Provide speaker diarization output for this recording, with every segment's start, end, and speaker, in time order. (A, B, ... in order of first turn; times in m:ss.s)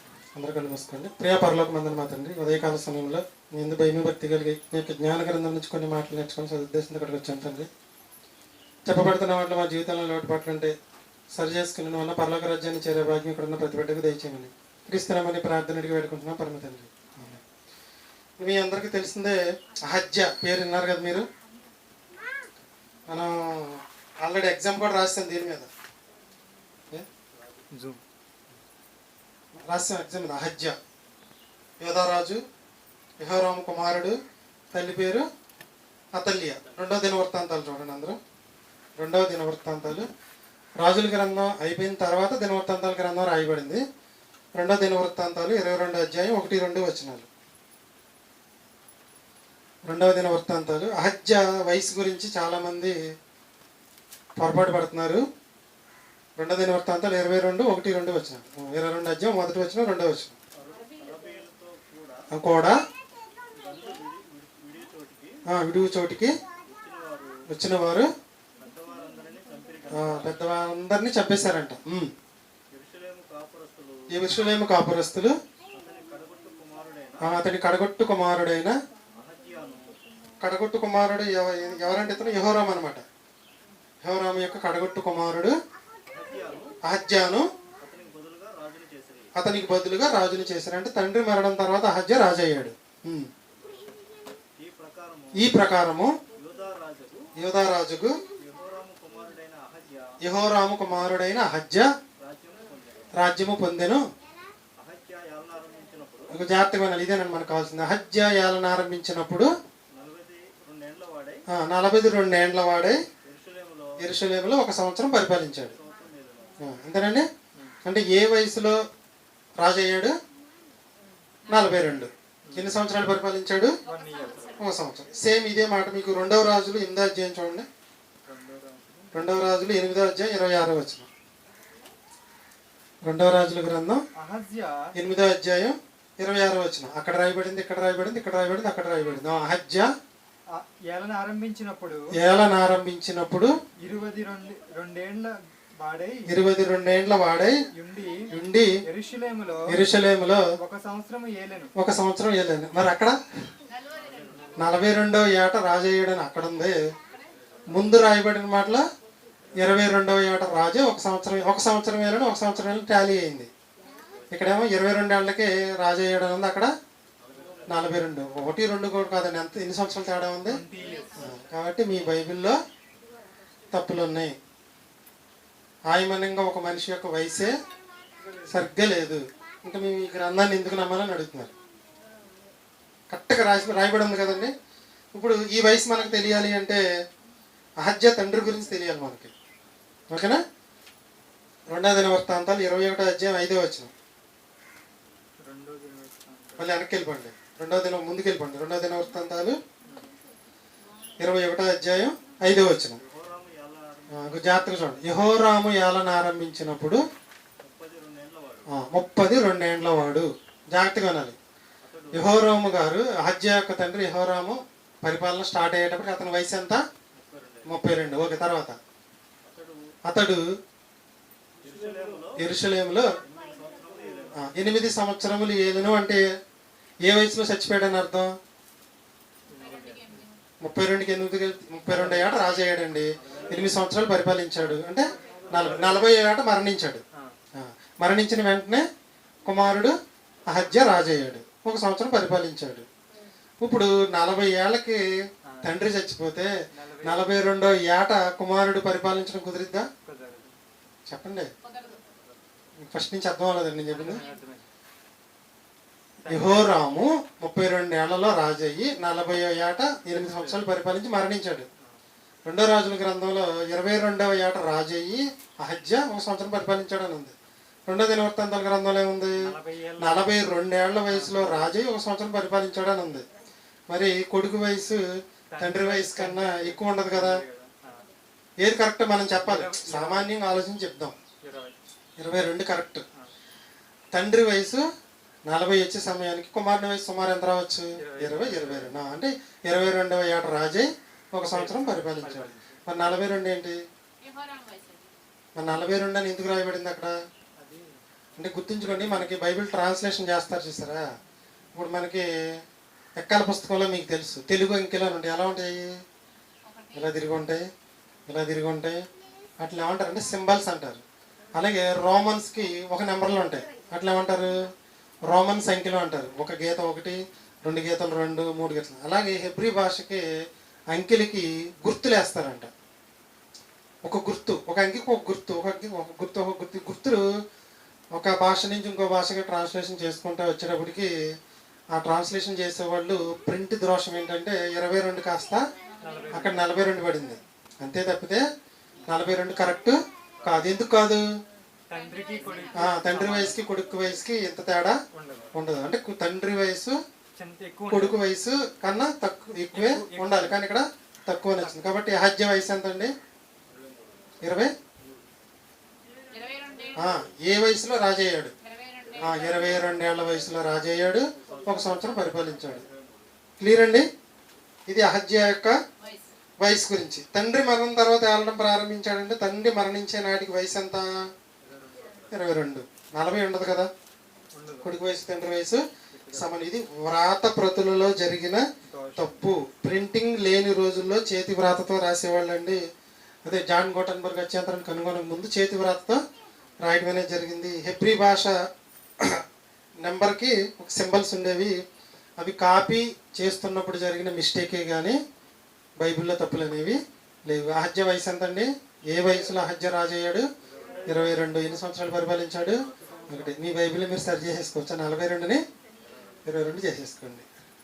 0:00.4-0:07.7 A
0:08.8-0:10.7 A
0:11.3-0:17.4 A
0:18.4-0:21.2 A
0:23.1-0:25.7 A
0:27.7-0:28.0 B
0:29.7-0:30.7 A
0:31.8-0:32.4 A
0:33.2-0:34.2 A
0:34.7-0:35.2 A
0:36.2-0:38.2 A
0:39.0-0:40.0 A
0:40.8-0:43.8 A
0:44.6-0:47.3 A
0:49.9-0:53.0 A
0:54.4-0:55.2 A
0:56.4-1:00.4 A
1:00.6-1:02.2 C
1:02.3-1:02.8 A
1:03.6-1:05.4 C
1:05.5-1:06.4 A
1:06.7-1:07.3 C
1:07.5-1:08.1 A
1:08.6-1:10.3 C
1:09.9-1:12.1 A
1:12.7-1:14.1 C
1:14.1-1:15.3 A
1:15.7-1:17.2 C
1:17.2-1:18.7 A
1:19.2-1:20.0 C
1:20.4-1:23.0 A
1:24.0-1:25.5 A
1:26.1-1:26.7 C
1:26.8-1:27.5 A
1:27.8-1:29.3 C
1:29.3-1:33.3 A
1:34.6-1:35.3 C
1:35.4-1:36.2 A
1:36.4-1:37.3 C
1:37.4-1:38.2 A
1:38.4-1:40.1 C
1:40.2-1:41.9 A
1:42.2-1:43.1 C
1:43.2-1:44.0 A
1:44.8-1:46.3 C
1:46.3-1:49.5 A
1:50.0-1:51.4 C
1:51.5-1:53.0 A
1:53.2-1:53.9 C
1:54.0-1:55.8 A
1:55.8-1:56.6 C
1:56.6-1:57.2 A
1:57.8-1:58.8 A
1:59.6-2:00.1 A
2:01.5-2:03.8 A
2:02.4-2:02.7 B
2:03.8-2:04.5 B
2:03.9-2:04.5 D
2:04.6-2:07.6 A
2:08.2-2:09.2 B
2:09.1-2:11.1 A
2:13.0-2:14.0 A
2:14.2-2:14.9 B
2:14.9-2:19.9 A
2:20.5-2:22.1 B
2:22.1-2:23.5 A
2:23.8-2:26.3 B
2:26.3-2:27.6 A
2:27.7-2:28.3 B
2:28.3-2:28.8 A
2:28.8-2:29.7 B
2:29.7-2:30.5 A
2:30.6-2:31.7 B
2:31.8-2:33.2 A
2:33.7-2:34.5 D
2:34.0-2:34.4 C
2:34.6-2:36.8 A
2:37.7-2:38.8 A
2:39.6-2:43.5 A
2:44.3-2:46.7 A
2:47.7-2:50.6 A
2:50.5-2:51.3 B
2:51.1-2:52.6 A
2:53.7-2:54.3 A
2:55.9-2:57.5 A
2:58.2-2:58.6 B
2:58.5-3:01.5 A
3:03.1-3:04.5 A
3:05.2-3:06.8 A
3:07.8-3:09.3 A
3:10.1-3:10.4 A
3:11.7-3:13.9 A
3:15.4-3:16.7 B
3:16.6-3:19.6 A
3:21.2-3:23.0 A
3:23.0-3:24.3 C
3:24.1-3:27.0 A
3:27.6-3:28.6 C
3:28.7-3:31.4 A
3:31.8-3:32.6 C
3:32.1-3:36.8 A
3:37.2-3:37.8 C
3:37.7-3:38.8 A
3:39.4-3:39.8 C
3:40.0-3:40.4 A
3:41.6-3:42.4 C
3:42.4-3:43.1 A
3:43.2-3:44.3 C
3:44.3-3:46.2 A
3:47.0-3:48.4 A
3:49.5-3:50.2 B
3:49.6-3:50.4 D
3:50.6-3:57.0 A
3:51.9-3:52.4 B
3:53.3-3:53.7 C
3:55.5-3:56.1 B
3:57.6-3:58.8 A
3:59.4-3:59.9 A
4:00.5-4:02.9 A
4:03.6-4:05.0 A
4:05.4-4:05.8 B
4:05.6-4:06.5 A
4:06.7-4:07.4 B
4:07.0-4:09.9 A
4:10.0-4:10.6 B
4:11.1-4:11.5 A
4:11.7-4:12.0 D
4:12.8-4:14.2 A
4:13.9-4:14.7 B
4:16.2-4:16.8 B
4:16.3-4:21.7 A
4:20.1-4:20.6 B
4:22.4-4:27.3 A
4:27.9-4:33.2 A
4:29.4-4:30.3 B
4:31.1-4:31.7 B
4:33.9-4:35.0 A
4:35.5-4:38.1 B
4:35.6-4:37.4 A
4:38.6-4:41.1 A
4:39.4-4:40.3 B
4:41.4-4:41.8 B
4:42.2-4:43.0 A
4:44.1-4:44.8 A
4:45.5-4:53.8 A
4:48.0-4:49.0 B
4:51.5-4:53.0 B
4:54.2-4:55.1 D
4:55.6-4:57.1 A
4:57.6-4:57.9 B
4:58.4-5:01.0 A
4:58.8-4:59.3 B
5:01.8-5:02.2 A
5:03.2-5:05.9 A
5:06.6-5:07.1 D
5:06.9-5:07.6 A
5:08.3-5:09.0 A
5:09.6-5:11.0 A
5:11.5-5:14.7 A
5:15.3-5:20.2 A
5:20.9-5:22.7 A
5:24.0-5:27.2 A
5:28.1-5:31.1 A
5:31.9-5:35.6 A
5:36.0-5:36.7 B
5:36.3-5:38.4 A
5:39.1-5:41.2 A
5:41.9-5:43.6 B
5:42.0-5:42.8 D
5:42.7-5:45.0 A
5:45.1-5:45.5 B
5:45.5-5:47.0 A
5:47.4-5:48.2 B
5:47.9-5:53.1 A
5:49.7-5:50.6 B
5:51.6-5:52.0 B
5:54.4-5:54.7 A
5:56.3-5:57.0 D
5:57.0-5:58.5 A
5:58.7-5:59.8 D
5:59.2-6:02.8 A
6:01.6-6:02.9 C
6:03.6-6:04.0 A
6:04.9-6:05.7 A
6:06.0-6:06.3 D
6:06.6-6:11.1 A
6:12.3-6:13.9 A
6:14.5-6:14.9 B
6:14.8-6:18.6 A
6:16.1-6:16.6 B
6:18.9-6:19.3 B
6:19.2-6:22.8 A
6:23.4-6:26.2 A
6:26.8-6:28.6 A
6:30.0-6:31.8 A
6:32.4-6:35.2 A
6:36.0-6:40.4 A
6:41.1-6:45.6 A
6:46.4-6:47.4 A